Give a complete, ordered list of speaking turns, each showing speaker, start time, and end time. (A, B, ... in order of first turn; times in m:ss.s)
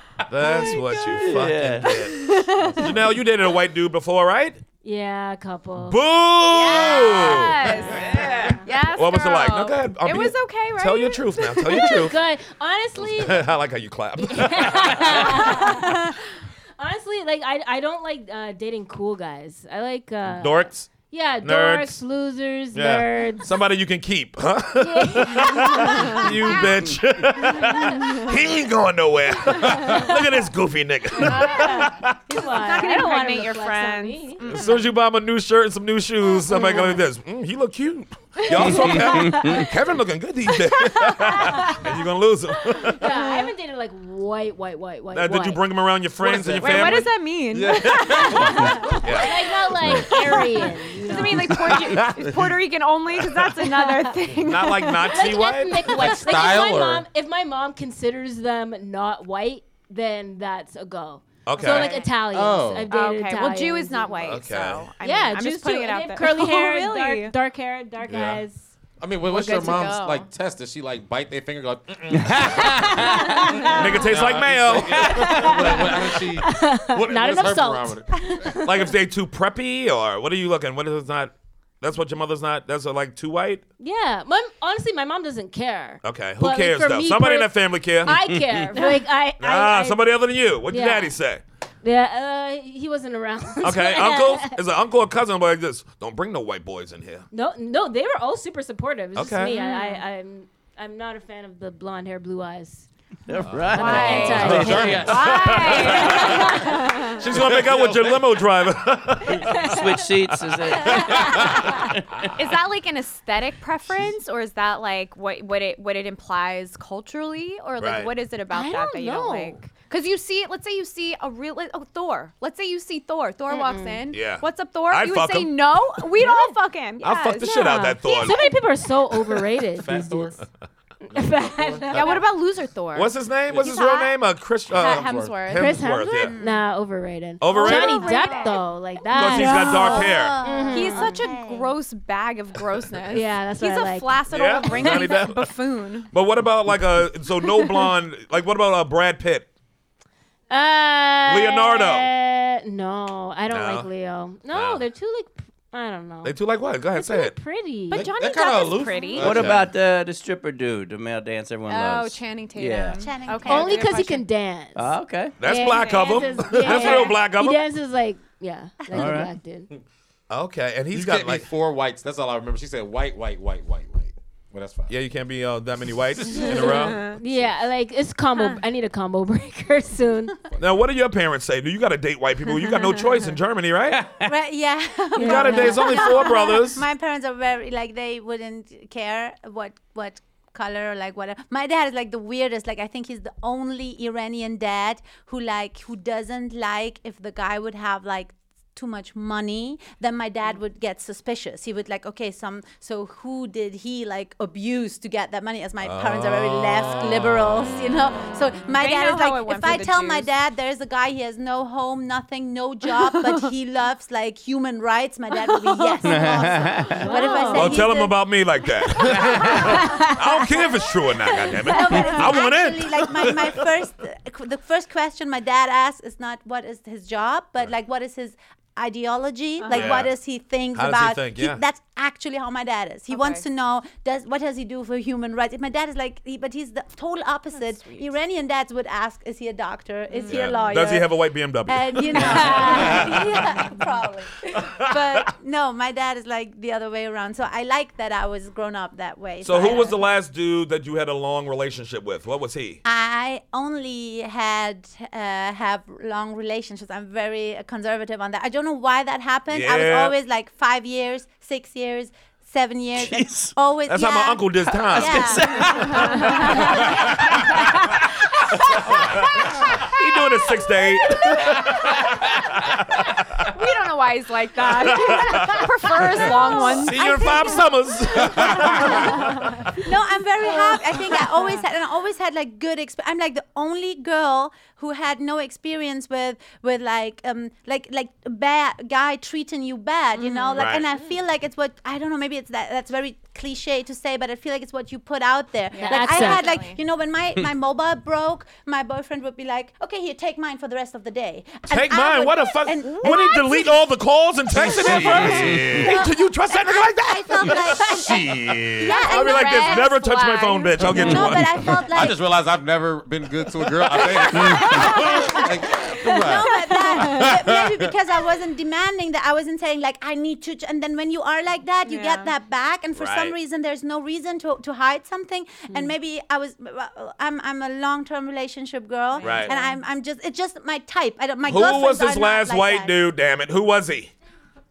0:00.3-0:04.6 A
0:00.6-0:02.0 B
0:01.9-0:03.0 C
0:04.8-0:06.0 D
0:05.8-0:08.3 A
0:06.5-0:12.1 C
0:07.8-0:08.6 B
0:08.9-0:12.2 A
0:11.7-0:13.5 D
0:13.0-0:15.6 A
0:14.2-0:16.0 D
0:15.6-0:16.1 C
0:16.8-0:23.5 D
0:20.2-0:22.0 A
0:22.7-0:32.2 A
0:24.8-0:26.7 D
0:31.2-0:35.0 C
0:31.2-0:34.5 D
0:34.4-0:43.1 A
0:36.5-0:37.0 C
0:38.4-0:38.9 C
0:38.7-0:39.7 B
0:38.8-0:39.7 D
0:40.7-0:41.7 C
0:41.6-0:41.9 D
0:43.0-0:45.6 D
0:43.0-0:43.5 C
0:45.1-0:47.1 A
0:46.2-0:48.6 E
0:46.6-0:49.2 C
0:48.0-0:51.6 D
0:49.0-0:49.4 A
0:49.8-0:50.1 E
0:50.1-0:55.3 C
0:52.2-0:52.4 E
0:53.7-0:54.2 D
0:54.4-0:56.2 A
0:54.9-1:04.4 D
0:55.9-0:57.0 E
1:01.4-1:02.0 A
1:01.6-1:02.1 C
1:02.3-1:02.9 E
1:02.9-1:07.3 C
1:04.2-1:04.9 A
1:05.0-1:08.7 D
1:08.0-1:08.4 E
1:09.0-1:18.4 E
1:09.3-1:10.3 C
1:12.1-1:13.5 B
1:13.0-1:14.1 D
1:13.7-1:15.1 A
1:14.7-1:15.9 B
1:15.2-1:18.9 D
1:18.6-1:23.6 A
1:23.8-1:31.2 D
1:26.0-1:28.4 A
1:28.2-1:28.8 B
1:29.4-1:31.4 A
1:31.8-1:34.6 D
1:33.6-1:37.2 A
1:37.3-1:42.9 D
1:39.1-1:39.6 A
1:39.6-1:40.0 C
1:43.3-1:45.2 B
1:43.4-1:46.4 E
1:43.7-1:45.3 D
1:43.8-1:47.2 C
1:45.3-1:46.4 A
1:45.9-1:46.9 D
1:47.2-1:49.8 A
1:47.2-1:48.2 E
1:49.5-1:51.9 B
1:50.8-1:51.3 A
1:51.0-1:51.6 D
1:52.3-2:08.4 C
1:57.8-1:58.1 A
1:58.5-1:59.7 D
2:03.5-2:04.0 D
2:04.1-2:06.4 A
2:07.0-2:08.4 A
2:08.0-2:10.4 D
2:09.8-2:10.4 E
2:11.0-2:12.2 D
2:11.1-2:12.2 E
2:11.9-2:16.6 C
2:12.9-2:16.3 A
2:14.7-2:15.6 E
2:15.5-2:21.3 D
2:17.4-2:18.4 A
2:17.4-2:26.1 C
2:19.1-2:20.4 A
2:19.3-2:21.7 F
2:23.1-2:25.0 D
2:24.3-2:25.5 A
2:26.1-2:29.5 A
2:27.4-2:27.9 C
2:30.5-2:38.1 D
2:31.2-2:32.1 A
2:33.5-2:33.9 A
2:34.5-2:34.8 A
2:36.2-2:37.4 A
2:37.9-2:39.3 C
2:38.0-2:39.7 E
2:39.2-2:39.7 A
2:39.2-2:43.1 B
2:41.7-2:44.3 C
2:43.0-2:43.9 F
2:43.4-2:49.7 D
2:44.8-2:45.4 B
2:45.4-2:47.6 A
2:45.8-2:47.1 C
2:48.9-2:49.3 B
2:50.3-2:51.5 A
2:50.9-2:54.9 E
2:54.9-2:57.2 A
2:56.3-3:00.5 D
2:56.5-2:57.1 C
2:57.2-2:57.5 E
3:00.6-3:04.0 A
3:03.9-3:04.3 B
3:04.2-3:38.2 F
3:05.2-3:06.1 D
3:05.2-3:06.8 A
3:25.8-3:27.8 A
3:28.7-3:30.3 C
3:33.0-3:33.3 C
3:35.7-3:36.2 C
3:36.0-3:37.1 B
3:37.0-3:37.8 D
3:37.1-3:37.6 C
3:37.6-3:43.7 A
3:39.1-3:39.7 F
3:41.5-4:10.0 F
3:41.9-3:42.3 C
3:49.6-3:50.0 C
3:49.7-3:50.1 A
3:50.7-3:51.6 A
3:53.1-3:53.4 C
3:57.5-3:58.1 C
4:00.1-4:00.7 C
4:00.2-4:03.7 A
4:02.5-4:02.8 D
4:04.5-4:05.2 A
4:09.4-4:12.8 A
4:09.6-4:09.9 C
4:12.8-4:26.9 F
4:19.5-4:20.1 A
4:23.0-4:23.5 B
4:23.9-4:25.4 A
4:24.9-4:27.5 B
4:25.6-4:26.7 C
4:28.7-4:33.5 A
4:31.1-4:32.5 B
4:33.5-4:39.7 C
4:34.7-4:39.6 A
4:39.7-5:03.8 F
4:41.0-4:41.3 C
4:50.2-4:51.1 D
4:50.2-4:50.6 C
4:50.5-4:50.8 A
4:55.7-4:56.8 C
4:55.8-4:56.5 D
5:01.7-5:11.8 A
5:04.5-5:12.2 F
5:04.7-5:05.7 E
5:08.9-5:11.0 C
5:10.8-5:17.9 E
5:14.4-5:15.3 C
5:16.1-5:32.9 F
5:21.8-5:22.3 C
5:23.0-5:23.4 A
5:29.2-5:29.7 C
5:29.2-5:29.5 A
5:31.4-5:34.1 A